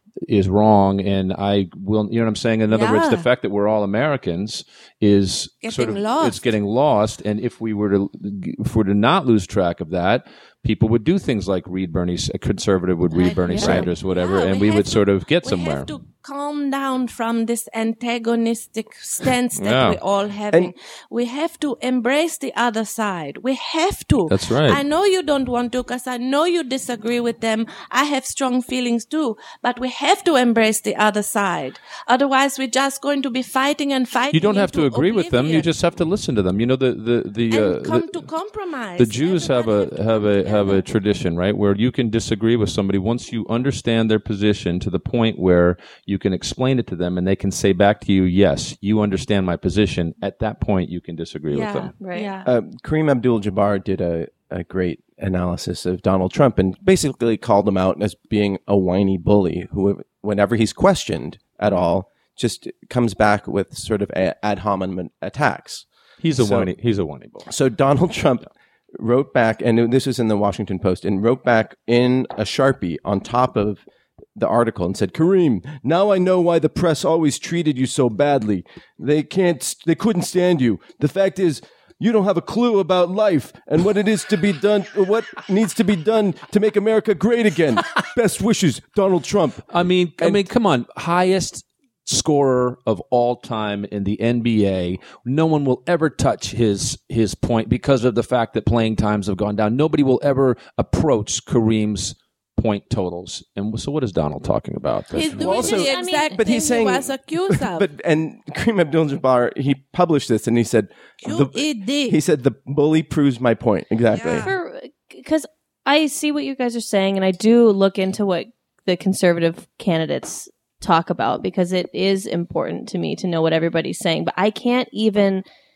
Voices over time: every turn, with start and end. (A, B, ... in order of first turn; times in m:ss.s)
0:00.2-0:15.9 A
0:02.7-0:03.2 B
0:05.6-0:06.5 B
0:13.1-0:35.7 B
0:13.5-0:13.8 C
0:19.5-0:20.0 A
0:24.3-0:24.8 A
0:34.3-0:38.2 A
0:37.5-0:40.9 B
0:39.0-0:51.9 A
0:51.5-0:52.5 B
0:52.0-0:52.3 C
0:52.4-1:06.7 D
1:06.2-1:07.5 A
1:07.5-1:13.8 D
1:14.4-1:30.5 D
1:29.7-1:45.8 A
1:45.1-1:47.9 B
1:45.3-1:54.5 D
1:45.4-1:46.5 C
1:51.2-1:52.2 B
1:54.1-1:54.6 B
1:54.4-2:05.4 C